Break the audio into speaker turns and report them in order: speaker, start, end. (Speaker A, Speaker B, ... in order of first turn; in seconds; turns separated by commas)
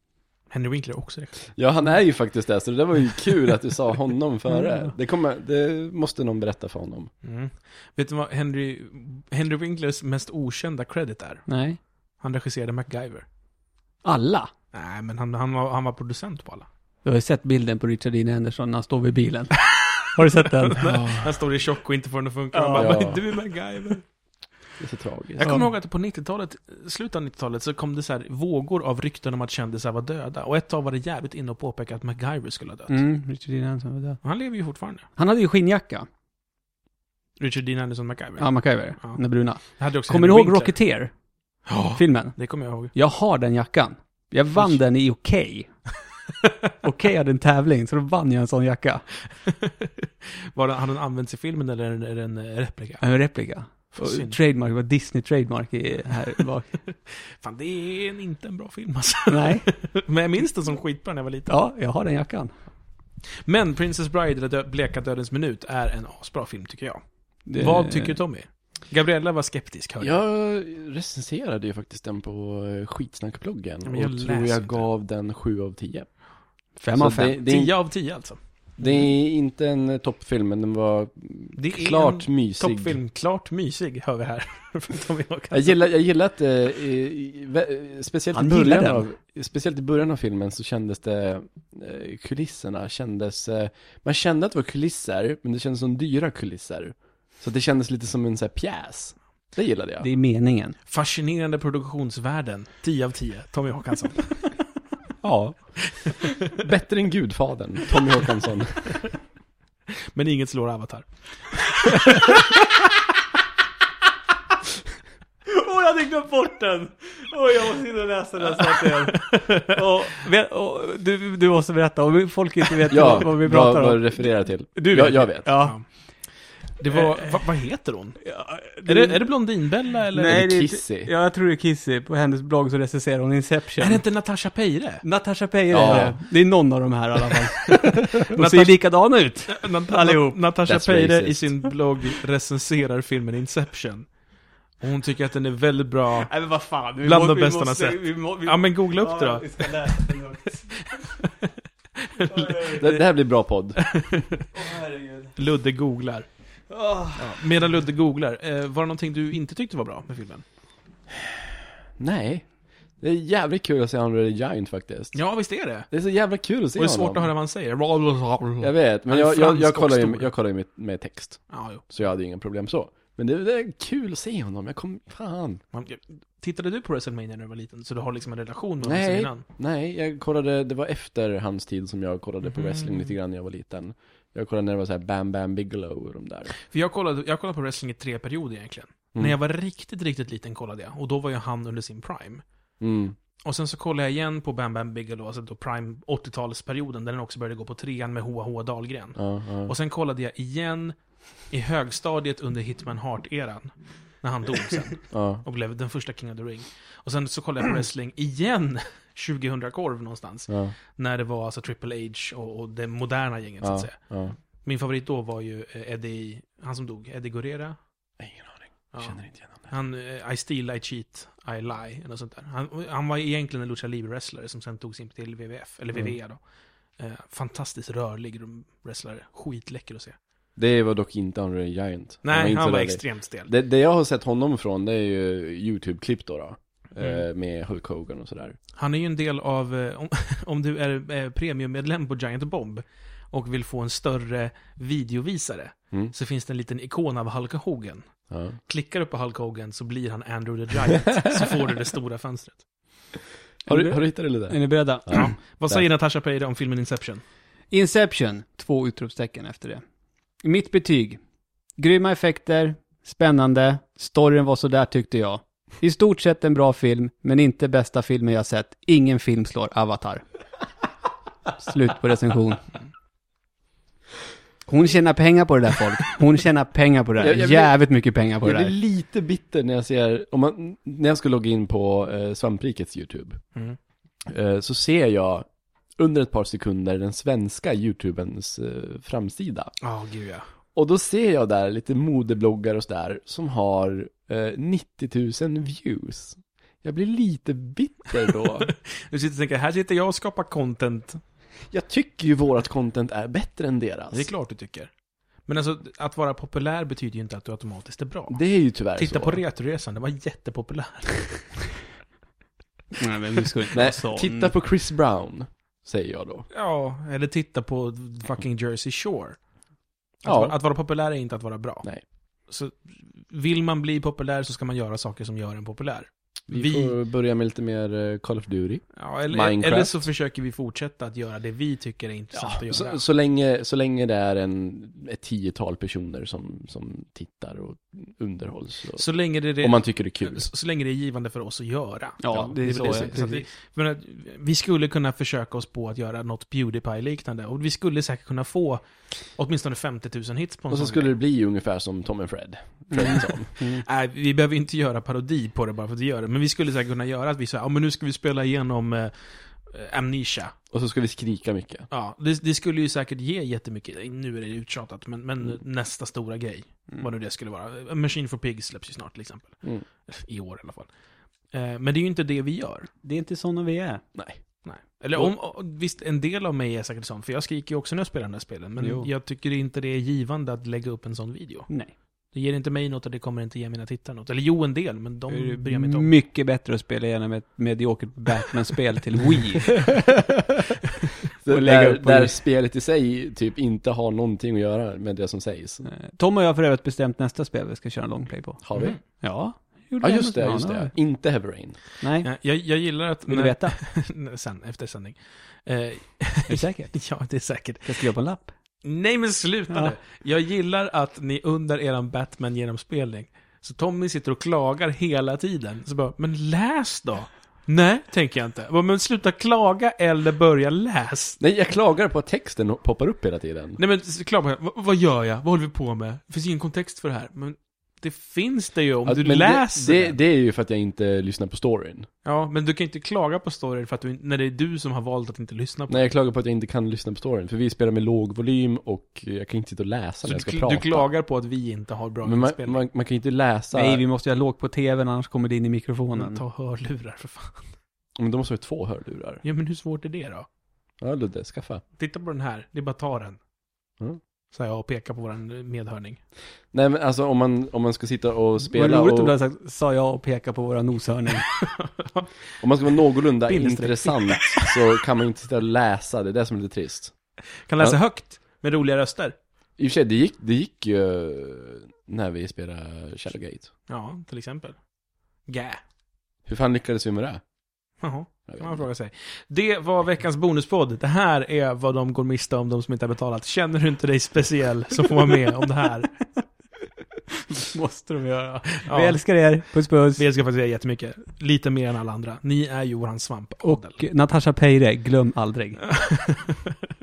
Speaker A: 0.5-1.4, Speaker B: 1.6-7.1, Speaker A: 7.2-11.4, Speaker C: 11.5-11.8, Speaker A: 12.2-13.2, Speaker C: 14.0-14.5, Speaker A: 14.7-16.7, Speaker C: 17.0-21.0, Speaker A: 20.7-24.0, Speaker C: 22.5-23.0, Speaker B: 22.7-23.2, Speaker B: 24.8-25.5, Speaker A: 25.4-33.0, Speaker C: 25.4-25.7, Speaker C: 32.9-34.2, Speaker A: 34.2-35.1, Speaker C: 35.2-36.1, Speaker A: 37.4-40.8, Speaker C: 38.4-41.1, Speaker A: 41.6-42.9, Speaker C: 41.9-45.7, Speaker A: 44.5-44.8, Speaker C: 46.8-49.1, Speaker A: 49.6-53.0, Speaker C: 53.0-56.8, Speaker A: 53.9-54.4, Speaker A: 57.3-61.5, Speaker C: 59.3-59.6, Speaker C: 61.5-62.5, Speaker A: 63.4-70.2, Speaker C: 67.5-68.2, Speaker B: 70.0-76.1, Speaker A: 73.8-74.8, Speaker C: 76.8-77.4, Speaker B: 76.9-77.8, Speaker A: 77.4-78.9, Speaker B: 78.8-83.0, Speaker A: 81.6-85.8, Speaker B: 85.5-100.1, Speaker C: 88.3-89.1, Speaker C: 100.0-100.8, Speaker A: 100.9-104.5, Speaker B: 105.2-105.8, Speaker B: 106.6-109.0, Speaker A: 110.1-112.5, Speaker C: 115.5-126.0, Speaker A: 118.5-119.6, Speaker B: 122.9-125.5, Speaker A: 125.6-125.8, Speaker A: 126.8-128.3, Speaker C: 126.9-127.3, Speaker C: 128.2-129.3, Speaker A: 128.8-130.4, Speaker C: 130.1-134.0, Speaker B: 130.2-131.1, Speaker A: 133.8-135.0, Speaker C: 135.0-140.4, Speaker B: 135.7-136.2, Speaker A: 135.8-136.2, Speaker A: 138.3-138.8, Speaker A: 139.5-144.1, Speaker B: 140.7-141.5, Speaker A: 144.8-146.3, Speaker C: 146.2-151.0, Speaker A: 147.0-150.5, Speaker A: 152.2-152.9, Speaker C: 152.2-153.0, Speaker B: 152.8-153.8, Speaker A: 153.8-154.4, Speaker C: 154.5-155.4, Speaker A: 155.3-156.3, Speaker C: 156.7-157.4, Speaker A: 157.2-160.4, Speaker B: 162.0-165.3, Speaker A: 165.1-165.9, Speaker B: 165.9-167.3, Speaker A: 166.7-170.3, Speaker B: 168.6-175.6, Speaker A: 171.5-171.8, Speaker A: 175.7-179.4, Speaker B: 178.8-186.6, Speaker A: 182.4-183.1, Speaker A: 186.7-192.4, Speaker B: 192.8-193.2, Speaker A: 193.4-200.9, Speaker B: 199.2-199.7, Speaker A: 201.5-217.8, Speaker B: 205.1-205.4, Speaker B: 210.5-210.7, Speaker B: 213.6-214.3, Speaker B: 218.2-219.7, Speaker A: 218.9-226.4, Speaker A: 227.0-230.2, Speaker B: 230.6-238.6, Speaker A: 232.2-233.5, Speaker A: 237.0-237.2, Speaker A: 238.8-252.6, Speaker B: 248.3-248.6, Speaker C: 253.7-255.2, Speaker B: 253.7-255.8, Speaker A: 255.1-257.2, Speaker C: 257.7-259.8, Speaker C: 260.4-261.2, Speaker C: 261.8-270.2, Speaker C: 271.6-272.6, Speaker C: 274.7-278.7, Speaker B: 277.2-277.8, Speaker B: 278.4-283.4, Speaker B: 284.3-285.4, Speaker B: 286.0-289.7, Speaker A: 289.8-290.4, Speaker B: 290.7-298.7, Speaker A: 298.6-301.2, Speaker B: 301.7-304.3, Speaker A: 304.1-304.9, Speaker A: 305.4-311.6, Speaker B: 308.3-309.4, Speaker C: 312.9-314.5, Speaker B: 313.7-316.4, Speaker A: 316.5-319.4, Speaker A: 320.2-321.9, Speaker B: 320.2-320.5, Speaker A: 322.5-327.0, Speaker B: 326.5-330.1, Speaker A: 328.9-333.0, Speaker B: 332.3-340.4, Speaker A: 338.9-348.8, Speaker C: 342.2-343.5, Speaker B: 342.3-343.2, Speaker A: 349.3-351.1, Speaker B: 350.7-353.5, Speaker C: 352.9-353.8, Speaker A: 353.6-360.5, Speaker B: 360.7-361.9, Speaker A: 361.9-370.9, Speaker A: 371.5-372.9, Speaker C: 373.0-374.0, Speaker B: 374.1-374.4, Speaker A: 374.6-386.1, Speaker C: 378.8-379.1, Speaker C: 385.3-390.1, Speaker B: 391.4-395.9, Speaker C: 391.4-392.4, Speaker C: 395.8-400.9, Speaker B: 398.6-399.0, Speaker A: 398.7-399.0, Speaker B: 400.0-401.8, Speaker C: 402.0-402.3, Speaker A: 402.2-408.1, Speaker C: 403.3-403.8, Speaker C: 406.5-407.1, Speaker C: 407.8-408.5, Speaker A: 408.8-421.4, Speaker C: 409.7-409.9, Speaker B: 421.4-423.8, Speaker A: 423.8-430.1, Speaker B: 429.1-432.1, Speaker A: 432.2-436.1, Speaker B: 435.9-441.1, Speaker A: 440.2-442.8, Speaker B: 442.2-444.0, Speaker C: 443.7-446.4, Speaker A: 446.1-447.6, Speaker B: 448.2-449.4, Speaker A: 449.4-450.5, Speaker B: 451.0-451.8, Speaker A: 452.0-453.4, Speaker A: 454.5-456.2, Speaker B: 456.7-459.3, Speaker C: 458.6-461.5, Speaker B: 462.6-467.1, Speaker C: 463.5-464.1, Speaker A: 464.3-464.6, Speaker A: 467.7-469.4, Speaker B: 469.8-473.7, Speaker A: 473.9-474.8, Speaker A: 475.5-475.8, Speaker B: 476.4-477.4, Speaker A: 478.0-486.2, Speaker B: 478.5-478.8, Speaker C: 487.5-490.2, Speaker A: 488.9-489.2, Speaker A: 490.1-494.0, Speaker C: 493.6-495.8, Speaker A: 496.0-496.7